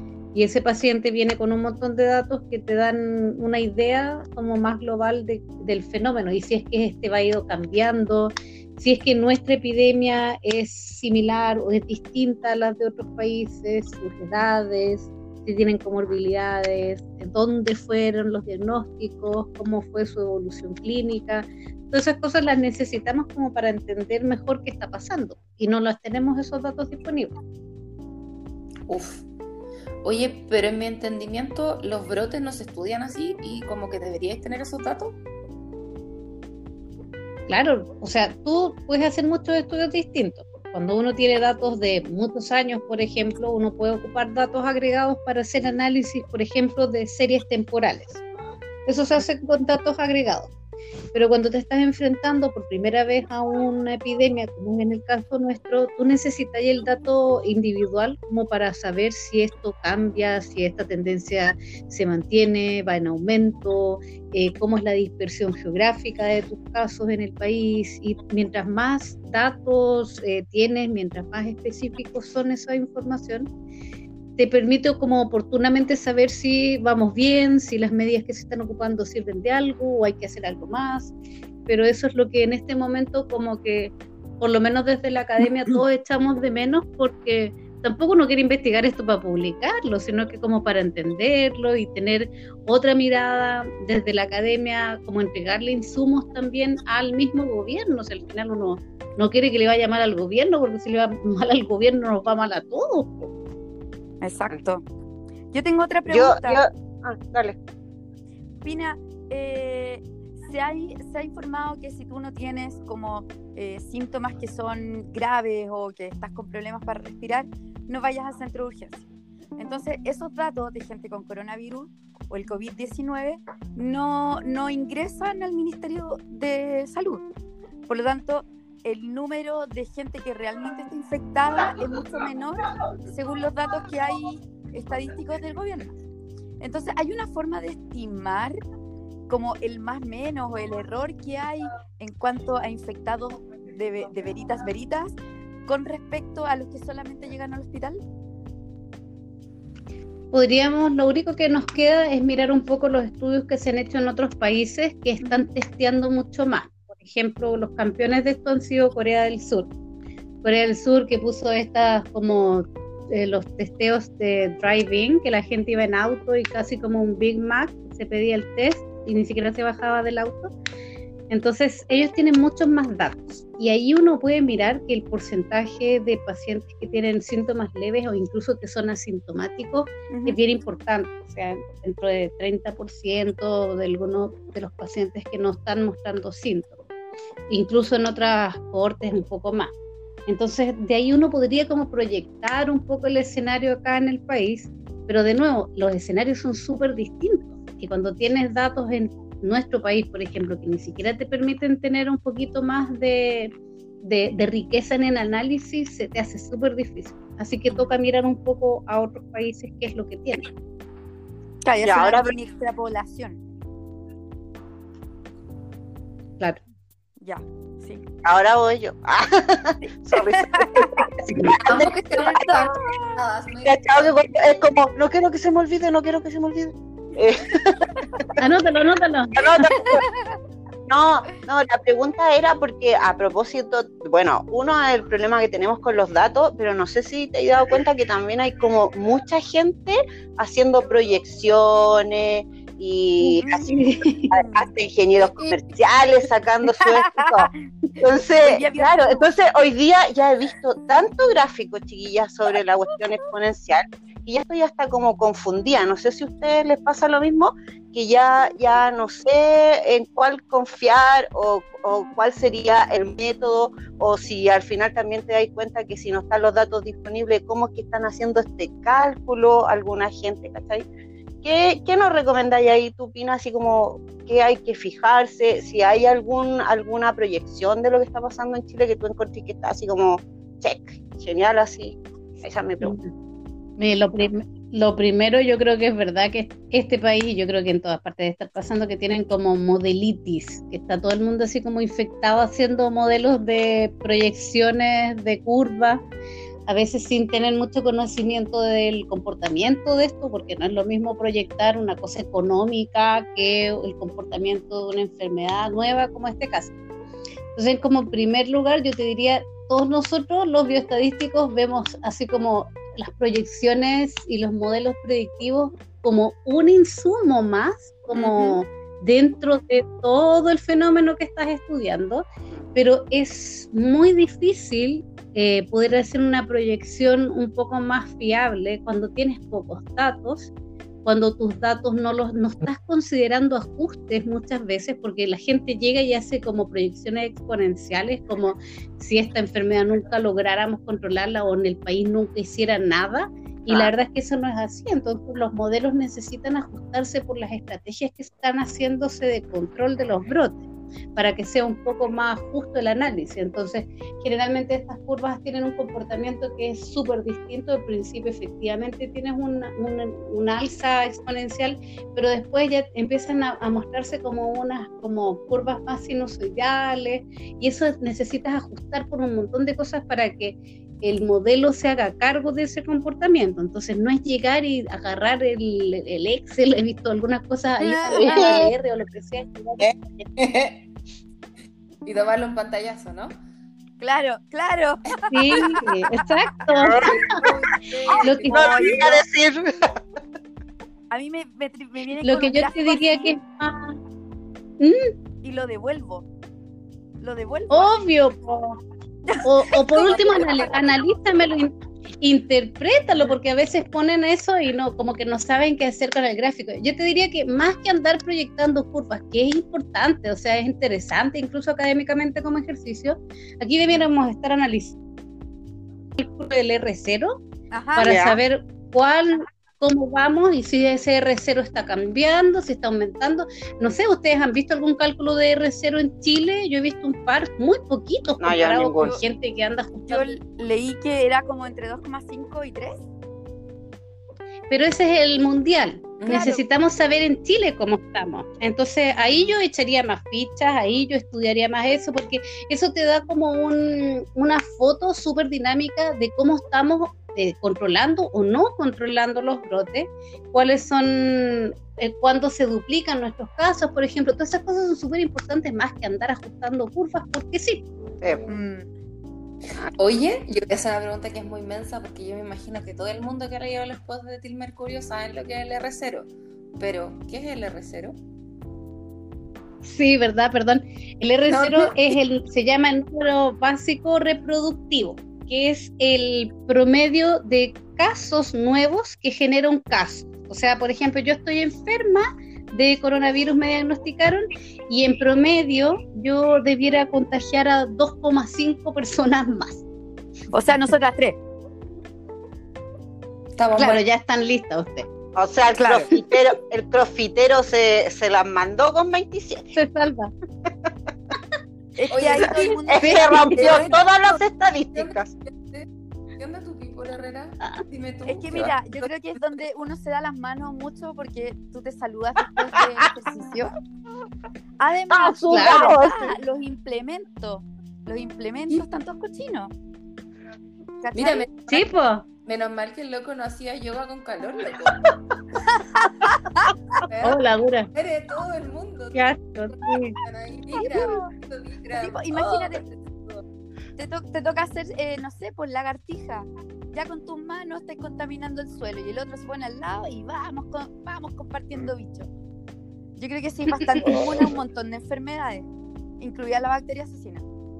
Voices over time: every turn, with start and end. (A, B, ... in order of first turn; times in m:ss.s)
0:00.3-0:27.4 A
0:28.9-0:29.2 B
0:30.0-0:35.2 B
0:37.5-0:48.2 A
0:48.8-0:50.5 A
0:51.1-1:13.5 A
1:14.4-1:21.1 A
1:21.7-1:43.3 A
1:44.2-1:44.8 C
1:45.5-1:46.6 C
1:46.1-1:47.6 D
1:48.6-2:07.2 C
2:07.9-2:15.9 C
2:16.6-2:18.6 C
2:19.3-2:28.0 C
2:30.3-2:39.7 A
2:35.2-2:35.5 C
2:40.4-2:50.5 A
2:51.3-3:06.8 A
3:00.1-3:00.4 C
3:07.5-3:09.7 A
3:10.3-3:23.5 A
3:24.0-3:30.5 A
3:31.6-3:33.4 C
3:31.8-3:32.4 D
3:37.2-3:38.0 C
3:38.2-3:41.9 D
3:40.2-3:41.1 C
3:41.2-3:41.5 A
3:41.7-3:44.0 B
3:42.2-3:43.2 C
3:43.6-3:47.8 D
3:48.4-3:49.3 A
3:49.3-3:50.0 D
3:50.9-4:03.8 D
4:03.2-4:04.3 A
4:03.4-4:03.7 C
4:04.3-4:30.8 D
4:04.4-4:04.6 C
4:06.8-4:07.1 C
4:08.4-4:09.2 C
4:31.4-4:42.9 D
4:42.8-4:43.0 A
4:43.8-4:56.0 A
4:56.7-5:06.7 A
5:07.6-5:22.2 A
5:18.1-5:18.6 C
5:22.7-5:30.5 A
5:31.0-5:50.6 A
5:51.2-6:19.9 A
6:17.8-6:18.6 C
6:18.1-6:18.7 D
6:22.0-6:23.4 B
6:24.0-6:25.9 C
6:25.3-6:27.2 A
6:25.5-6:25.8 B
6:26.8-6:27.1 D
6:26.9-6:28.4 B
6:27.3-6:29.2 C
6:28.2-6:29.1 A
6:28.5-6:29.9 D
6:31.1-6:33.3 C
6:32.2-6:34.0 A
6:34.8-6:35.1 A
6:35.4-6:36.3 C
6:37.2-6:38.0 C
6:37.7-6:38.8 A
6:39.4-6:40.7 C
6:39.4-6:55.0 A
6:56.2-6:57.4 A
6:57.7-6:58.2 C
6:58.0-7:10.4 A
6:58.0-6:58.4 D
7:08.4-7:09.1 D
7:09.0-7:09.2 C
7:10.0-7:13.0 C
7:14.7-7:37.9 A
7:16.2-7:16.4 B
7:16.2-7:16.6 C
7:19.2-7:19.4 C
7:38.5-7:38.9 C
7:40.0-7:48.2 B
7:49.8-8:09.8 A
7:51.5-7:52.0 B
8:10.5-8:11.4 C
8:13.6-8:14.0 B
8:13.8-8:15.1 A
8:15.3-8:19.7 D
8:15.8-8:16.1 C
8:19.7-8:20.3 A
8:22.0-8:23.7 C
8:22.1-8:24.4 B
8:22.9-8:25.3 D
8:23.5-8:23.8 A
8:24.9-8:28.8 B
8:28.2-8:33.7 C
8:34.8-8:39.7 C
8:35.1-8:36.3 D
8:35.5-8:35.9 A
8:41.0-8:41.5 C
8:41.1-8:41.8 B
8:41.7-8:42.2 A
8:42.4-8:45.0 B
8:46.0-8:46.7 C
8:47.1-8:47.4 B
8:47.2-8:47.9 A
8:47.9-8:53.4 B
8:49.1-8:50.2 A
8:52.0-8:52.8 C
8:54.0-9:02.3 C
9:03.2-9:07.4 C
9:04.0-9:04.3 D